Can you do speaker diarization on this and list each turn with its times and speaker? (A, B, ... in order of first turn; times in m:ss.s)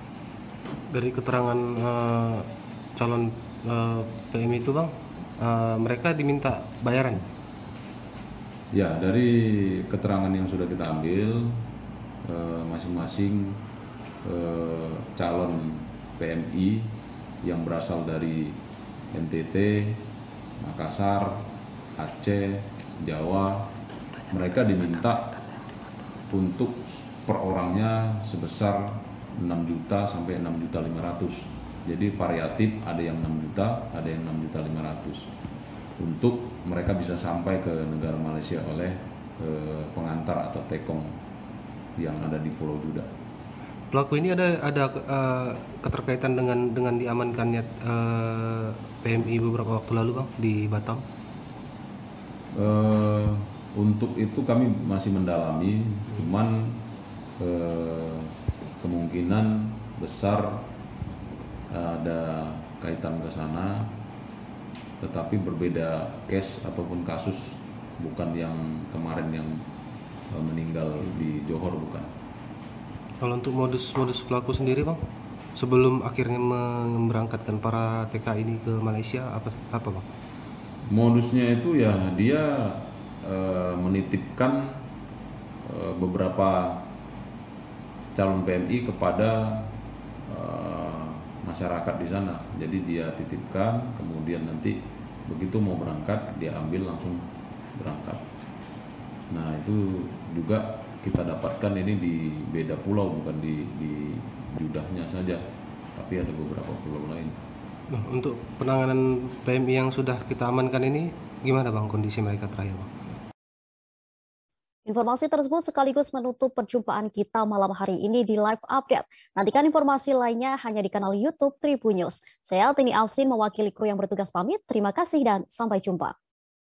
0:00.9-0:02.4 A
0:03.0-0:07.2 A
0:08.7-0:11.7 B
0:12.2-0:13.6 B
0:14.2-0:18.6 B
0:19.1-0:20.1 B
0:20.6-0:23.8 B
0:24.3-0:25.3 B
0:26.3-0:35.3 B
0:36.0-0:41.2 B
0:42.0-0:43.1 B
0:43.9-0:51.0 A
0:52.5-0:56.8 B
0:57.4-1:00.7 B
1:01.7-1:03.9 B
1:05.0-1:09.6 B
1:10.3-1:12.1 B
1:13.2-1:15.0 A
1:15.6-1:20.0 A
1:20.9-1:24.9 B
1:25.6-1:26.9 B
1:28.1-1:29.8 B
1:30.3-1:38.2 B
1:39.3-1:45.4 B
1:46.0-1:47.4 B
1:48.0-1:52.9 A
1:54.9-2:06.2 C